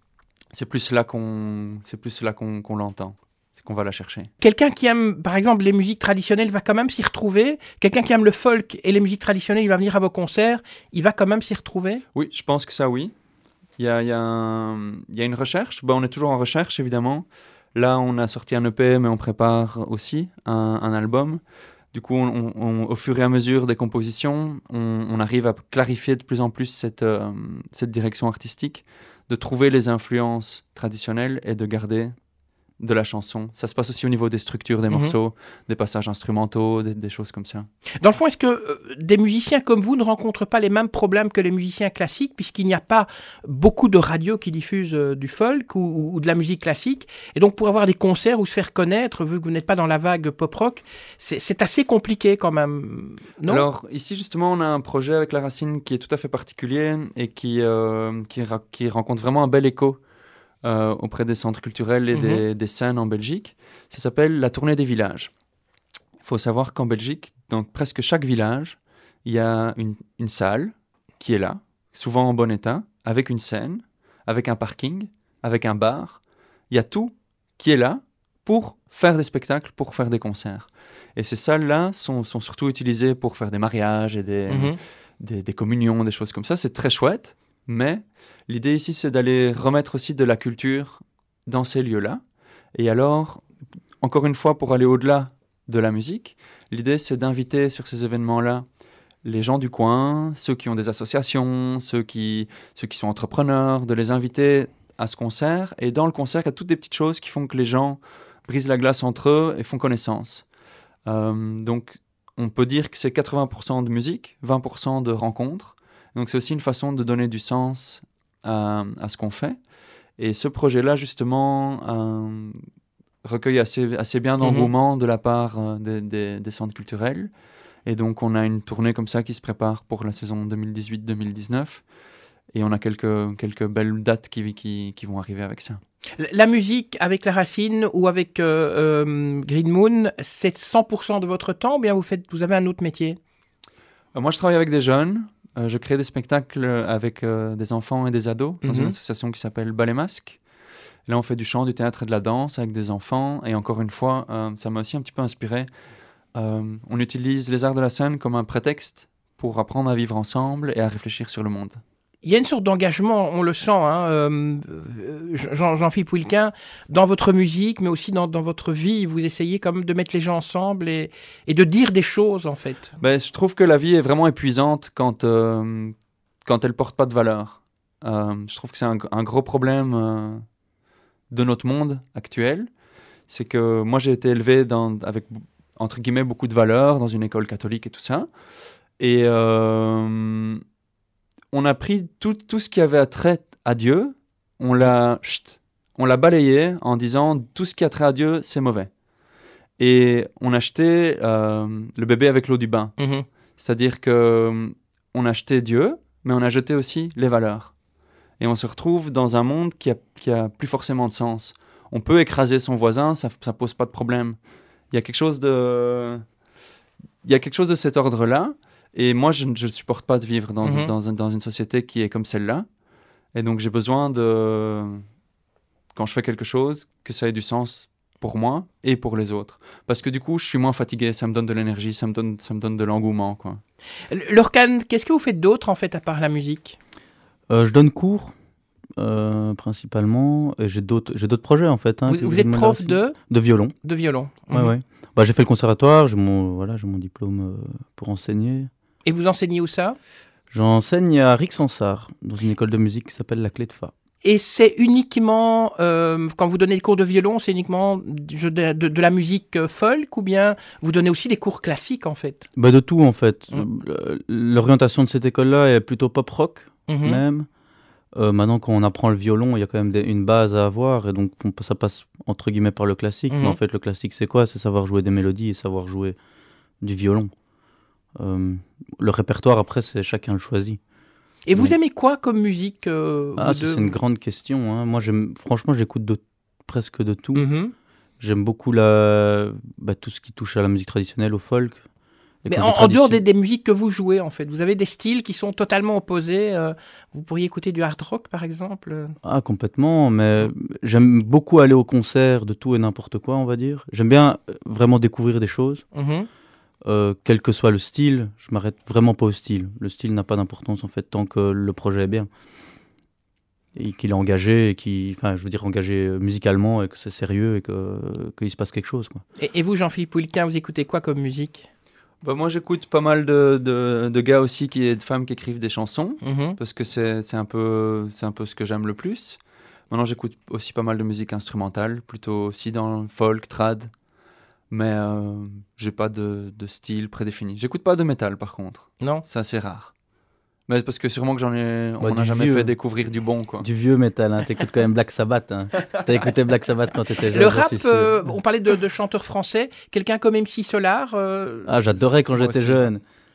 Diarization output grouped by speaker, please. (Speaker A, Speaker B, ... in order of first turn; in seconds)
Speaker A: 0.5-4.3, 12.1-13.1, 13.8-21.4, 21.9-32.1, 32.8-37.7, 53.5-60.0, 60.6-65.3, 66.2-92.2, 92.7-93.4, 94.0-98.7, 99.2-110.4, 111.0-119.6, 120.2-122.6, 123.2-127.3, 127.8-131.8, 132.5-135.8, 144.1-150.4, 151.1-155.7, 156.3-161.8, 173.0-180.4, 181.3-182.7, 183.3-188.3, 189.0-190.6, 191.5-198.9, 199.8-202.9, 203.6-207.7, 208.4-214.4, 214.9-216.2, 217.2-222.7, 223.3-225.0, 225.9-233.6, 322.2-333.9, 334.7-339.9, 340.7-343.6
Speaker B: 4.4-12.0, 38.0-53.7, 62.1-62.4, 84.5-84.8, 124.4-124.7, 136.2-143.2, 148.6-148.9, 162.2-173.0, 203.0-203.2, 220.6-220.9, 234.1-236.8, 242.1-243.2, 243.8-244.7, 249.0-250.0, 254.2-262.5, 266.9-267.2, 273.3-273.6, 281.4-283.9, 287.3-287.7, 292.5-299.1, 305.9-306.3, 319.4-321.7, 326.2-326.6, 347.3-352.9
Speaker C: 237.5-238.3, 239.0-243.7, 244.5-248.7, 250.5-253.9, 262.6-267.5, 268.1-276.1, 276.8-277.3, 278.2-280.8, 283.4-287.4, 288.2-291.8, 292.4-293.2, 299.2-305.8, 306.9-312.3, 313.8-319.2, 342.0-342.7, 343.6-348.1, 351.7-353.0